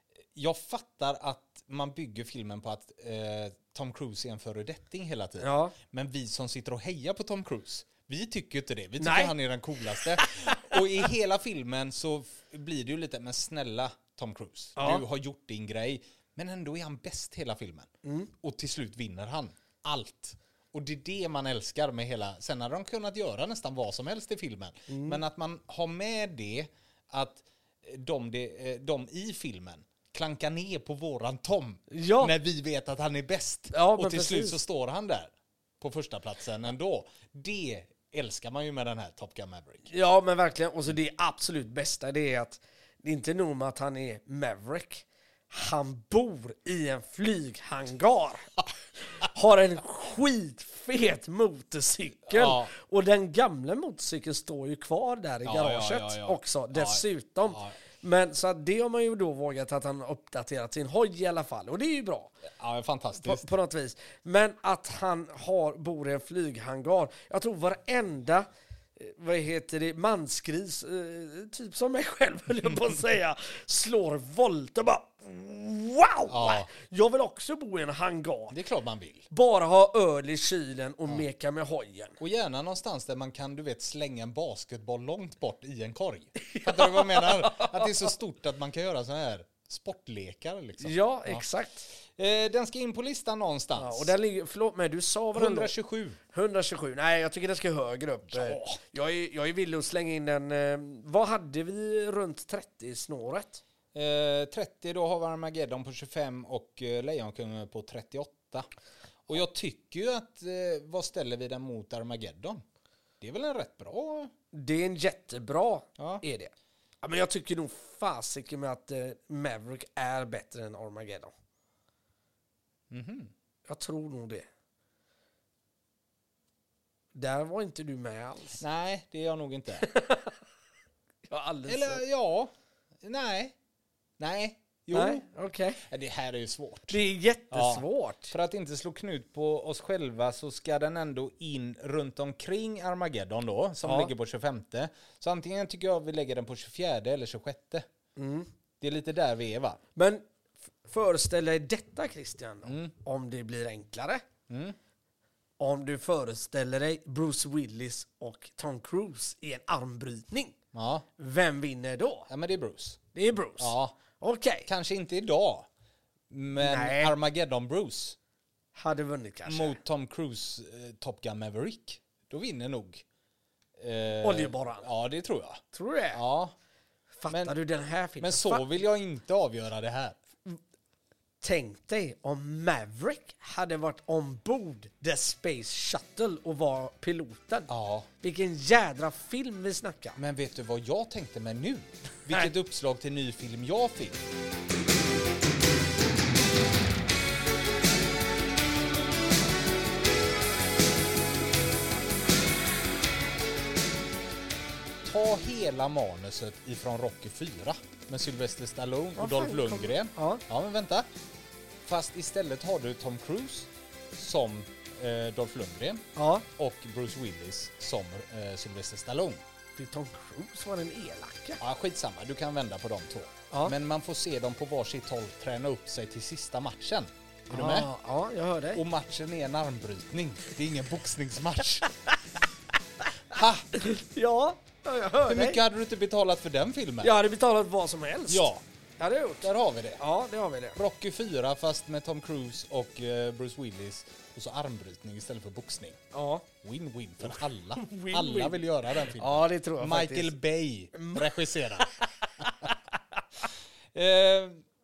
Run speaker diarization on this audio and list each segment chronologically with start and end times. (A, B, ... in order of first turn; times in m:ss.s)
0:00.4-0:17.9 A
0:05.4-0:05.8 B
0:09.0-0:09.3 B
0:10.0-0:10.7 B
0:14.8-0:15.0 B
0:18.0-0:18.3 B
0:18.4-0:39.9 A
0:24.9-0:25.2 B
0:31.9-0:32.3 B
0:33.7-0:34.6 B
0:39.9-0:48.6 B
0:49.1-1:02.3 B
0:52.3-0:52.7 A
0:55.4-0:57.8 A
1:02.6-1:03.5 A
1:03.2-1:18.6 B
1:16.3-1:16.7 A
1:18.5-1:19.3 A
1:19.3-1:22.2 B
1:22.2-1:31.4 A
1:26.4-1:28.1 B
1:30.8-1:31.9 B
1:32.0-1:34.2 A
1:33.8-1:35.7 B
1:35.3-1:36.2 A
1:36.3-1:43.6 B
1:38.3-1:38.8 A
1:43.9-1:48.7 A
1:49.3-1:52.6 A
1:53.2-1:54.3 A
1:54.5-2:01.3 B
1:56.0-1:56.2 A
2:02.9-2:03.3 A
2:03.7-2:04.4 B
2:07.2-2:08.6 B
2:08.6-2:09.9 A
2:09.8-2:10.4 B
2:11.3-2:12.0 B
2:11.7-2:12.5 A
2:13.0-2:13.6 A
2:14.2-2:15.3 A
2:14.9-2:15.8 B
2:15.8-2:17.0 A
2:16.9-2:18.3 B
2:17.5-2:27.9 A
2:23.8-2:24.1 B
2:28.2-2:28.5 B
2:28.8-2:29.8 A
2:30.0-2:30.2 B
2:30.8-2:34.2 B
2:32.6-2:32.9 A
2:34.5-2:34.8 A
2:35.6-2:40.6 B
2:40.7-2:41.1 A
2:41.2-2:42.3 B
2:42.3-2:43.0 A
2:43.1-2:44.7 B
2:43.6-2:44.0 A
2:44.6-2:45.7 A
2:46.3-2:48.2 A
2:46.6-2:47.1 B
2:48.8-2:49.8 B
2:49.5-2:53.0 A
2:53.8-2:55.6 A
2:54.2-2:54.9 B
2:55.7-2:56.2 B
2:56.1-2:56.5 A
2:57.2-2:58.7 B
2:57.3-2:57.6 A
2:58.2-3:00.2 A
3:01.4-3:07.7 B
3:07.7-3:08.1 A
3:08.2-3:10.2 B
3:10.2-3:14.2 A
3:25.0-3:31.1 A
3:29.2-3:30.4 B
3:31.8-3:39.4 A
3:36.2-3:36.4 B
3:39.8-3:41.6 B
3:41.6-3:47.9 A
3:47.5-3:48.8 B
3:48.7-3:51.9 A
3:53.3-3:53.7 A
3:53.8-3:55.6 B
3:55.2-3:57.2 A
3:57.0-4:00.8 B
3:58.3-3:58.6 A
3:59.4-4:00.0 A
4:00.8-4:06.0 A
4:06.1-4:06.4 B
4:06.6-4:12.7 A
4:07.4-4:10.3 B
4:10.9-4:12.7 B
4:13.9-4:14.6 A